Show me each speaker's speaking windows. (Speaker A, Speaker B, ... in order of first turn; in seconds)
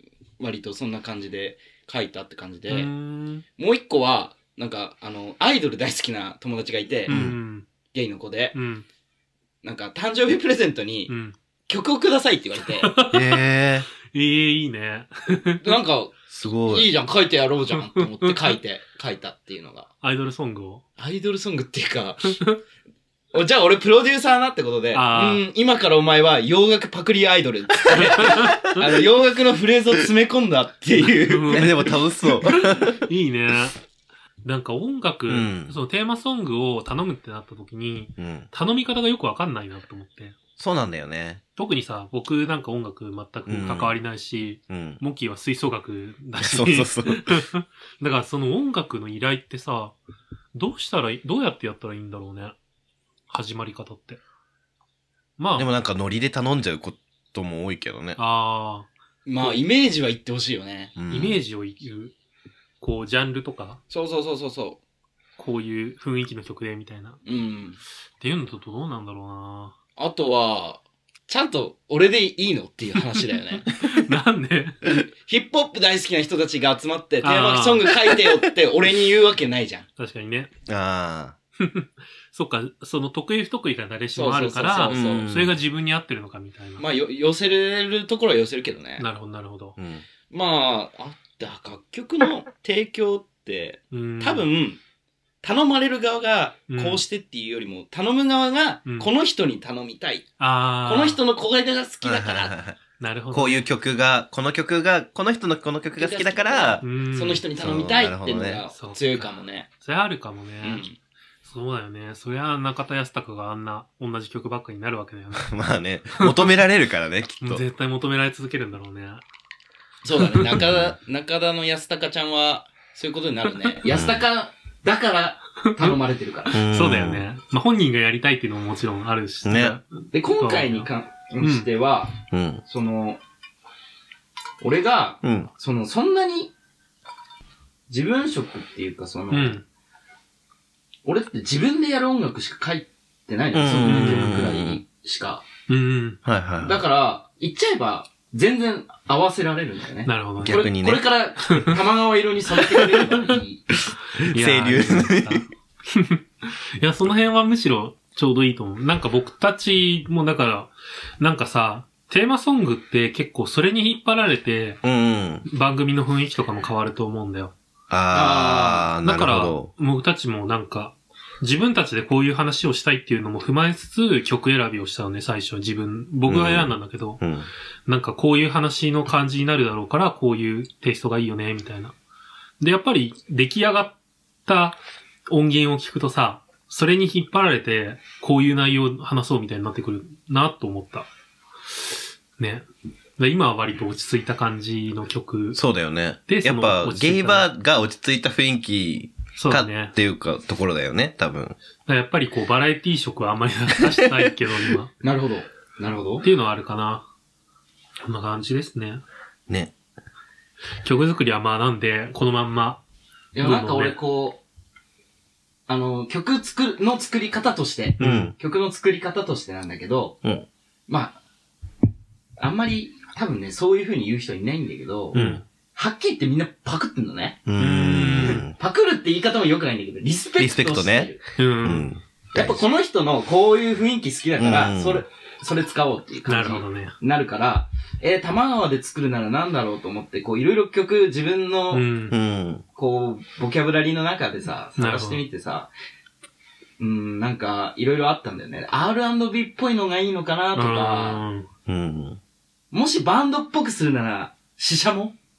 Speaker A: 0.4-2.9, 3.6-7.2, 7.9-8.6, 9.6-11.1, 11.7-12.9, 15.6-19.9, 21.0-22.4, 23.3-31.9, 59.2-60.9, 63.9-64.8, 67.2-67.8, 70.0-73.7, 74.9-79.8, 84.1-85.3, 86.8-89.0, 90.3-94.8, 95.4-100.3, 100.8-102.5, 106.0-109.7, 110.6-111.0, 120.0-126.6, 130.1-132.2, 132.7-133.2, 134.6-136.5, 137.9-139.6, 141.0-145.4, 146.6-153.8, 168.1-168.9, 205.0-206.2, 213.3-214.4, 215.7-220.2, 220.9-221.2, 222.4-227.4, 228.1-231.2, 232.3-241.8, 242.8-245.7, 246.8-251.2, 252.7-255.2
Speaker B: 2.7-3.4, 7.1-7.7, 8.5-8.8, 11.1-11.3, 12.8-13.4, 14.0-15.8, 17.7-18.6, 20.0-20.8, 24.9-25.4, 27.9-28.8, 31.0-33.8, 34.4-40.4, 41.5-50.0, 50.5-52.5, 53.3-54.2, 55.4-55.7, 58.2-58.9, 61.1-62.1, 62.8-63.8, 65.4-67.2, 68.2-69.7, 73.5-74.8, 77.2-77.9, 80.0-80.5, 81.6-86.8, 89.0-89.8, 93.9-94.5, 96.7-97.0, 100.4-101.2, 103.0-103.6, 106.8-107.4, 108.7-109.3, 109.8-110.8, 111.4-115.5, 116.2-116.5, 117.4-119.2, 120.2-120.5, 125.6-125.9, 126.5-130.9, 131.4-131.7, 139.3-139.6, 143.8-144.5, 145.7-146.2, 150.1-150.6, 151.5-151.8, 152.7-153.3, 154.2-164.8, 165.4-167.5, 169.0-177.2, 177.9-181.9, 182.6-191.1, 192.4-192.7, 193.2-195.6, 196.3-197.5, 199.3-199.9, 201.9-204.9, 206.2-207.1, 208.0-209.0, 210.8-212.8, 213.4-214.0, 218.0-218.3, 225.1-225.4, 227.6-228.5, 231.4-231.9, 236.2-236.9, 241.7-242.2, 244.8-245.2, 250.5-251.5
Speaker C: 7.1-7.4, 13.1-13.9, 16.3-16.9, 31.5-33.0, 35.3-35.8, 38.2-38.5, 40.6-41.4, 43.5-44.0, 44.7-45.0, 46.4-47.4, 55.5-58.2, 61.0-61.4, 80.7-81.3, 84.9-85.6, 89.8-90.0, 102.0-102.8, 103.3-106.8, 107.6-108.6, 115.4-117.6, 120.5-121.0, 123.9-124.2, 126.5-127.2, 129.4-129.8, 132.3-132.6, 135.2-135.5, 143.5-144.8, 146.2-146.8, 150.4-151.0, 154.2-155.4, 164.8-165.4, 167.9-169.7, 176.3-177.5, 195.5-201.6, 218.0-218.3, 227.5-228.5, 230.4-232.6, 234.4-235.0, 242.1-242.6, 251.7-252.2